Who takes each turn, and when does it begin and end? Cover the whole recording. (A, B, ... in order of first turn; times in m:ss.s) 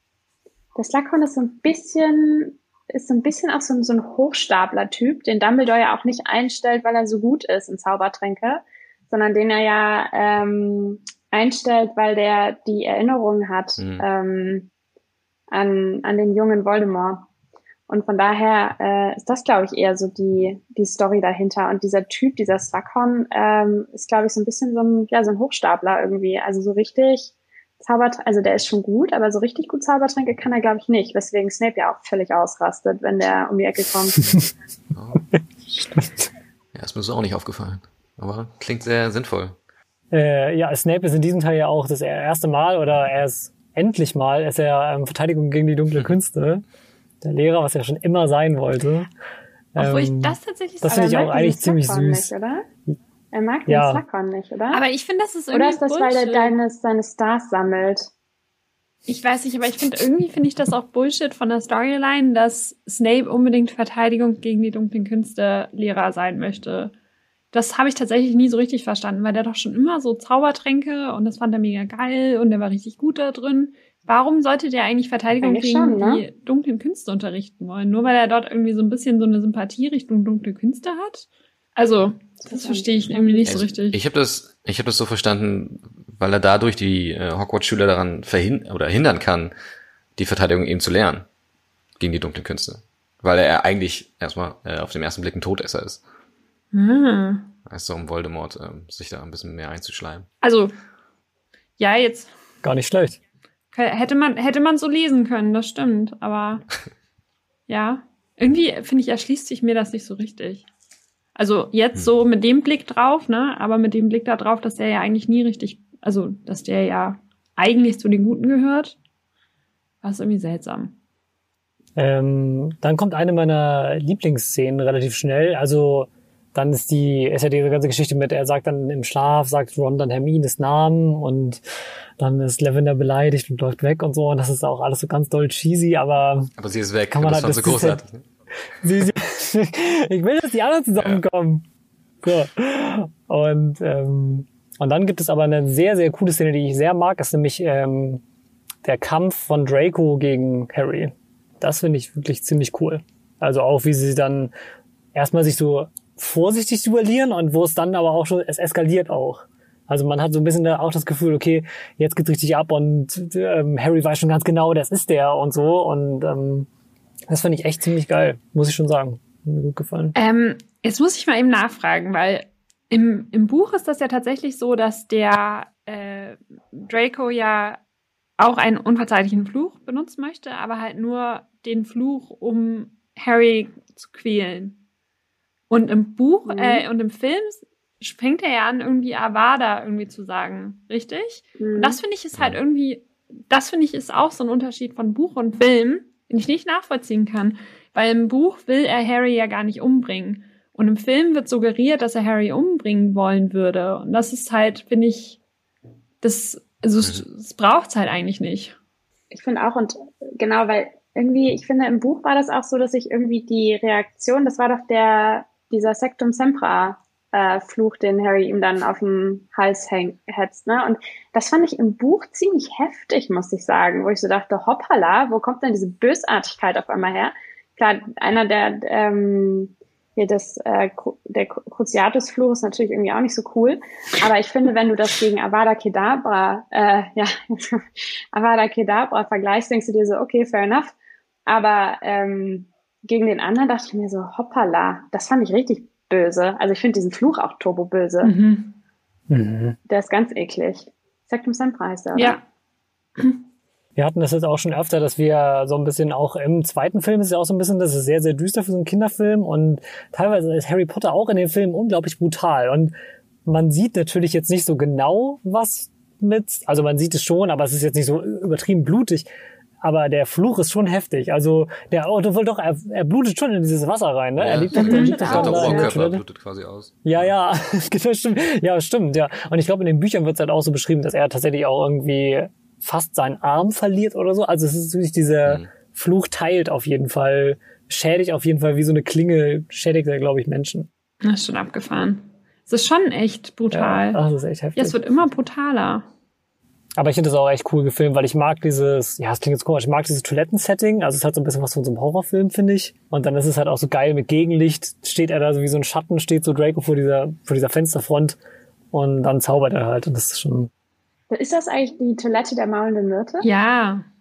0:00.8-0:14.7 A
0:13.8-0:14.0 B
0:15.5-0:17.3 A
0:17.9-0:34.2 A
0:34.9-0:35.2 B
0:35.4-0:36.1 C
0:36.7-0:39.6 B
0:40.1-0:46.6 C
0:47.2-0:49.1 C
0:49.7-0:52.3 C
0:49.8-0:51.3 D
0:50.8-0:52.6 A
0:53.3-0:54.8 A
0:53.7-0:54.0 C
0:54.7-0:56.6 D
0:55.5-0:58.1 A
0:59.1-1:06.9 D
1:07.5-1:24.0 D
1:15.4-1:16.2 A
1:22.4-1:23.6 A
1:23.4-1:29.5 B
1:30.2-1:31.3 B
1:32.0-1:36.0 B
1:36.7-1:37.5 D
1:37.7-1:40.3 B
1:40.4-1:40.7 D
1:41.8-1:42.3 D
1:42.6-1:43.2 C
1:43.7-1:46.6 D
1:47.7-1:50.6 D
1:51.4-1:59.0 D
2:00.0-2:00.9 D
2:02.0-2:11.6 C
2:12.2-2:16.5 C
2:16.6-2:18.2 B
2:17.1-2:18.0 C
2:18.8-2:21.6 C
2:21.0-2:21.2 B
2:22.2-2:28.2 C
2:28.8-2:34.5 C
2:35.1-2:46.7 C
2:47.3-2:50.1 C
2:50.1-2:57.8 D
2:58.4-3:04.8 D
3:05.7-3:25.4 D
3:06.5-3:06.8 A
3:11.6-3:12.0 A
3:26.2-3:28.7 D
3:29.3-4:00.9 A
4:01.4-4:08.3 A
4:08.2-4:08.8 D
4:09.3-4:09.8 C
4:09.9-4:12.4 A
4:12.1-4:12.4 D
4:13.2-4:13.4 D
4:14.0-4:22.9 C
4:23.4-4:29.3 C
4:29.8-4:36.2 C
4:34.4-4:37.3 B
4:34.7-4:35.9 D
4:34.8-4:35.9 A
4:37.0-4:50.9 C
4:51.2-4:54.2 D
4:53.7-4:55.0 C
4:54.8-4:56.0 D
4:57.0-5:08.4 C
5:08.9-5:10.7 C
5:11.3-5:13.5 A
5:13.4-5:14.0 D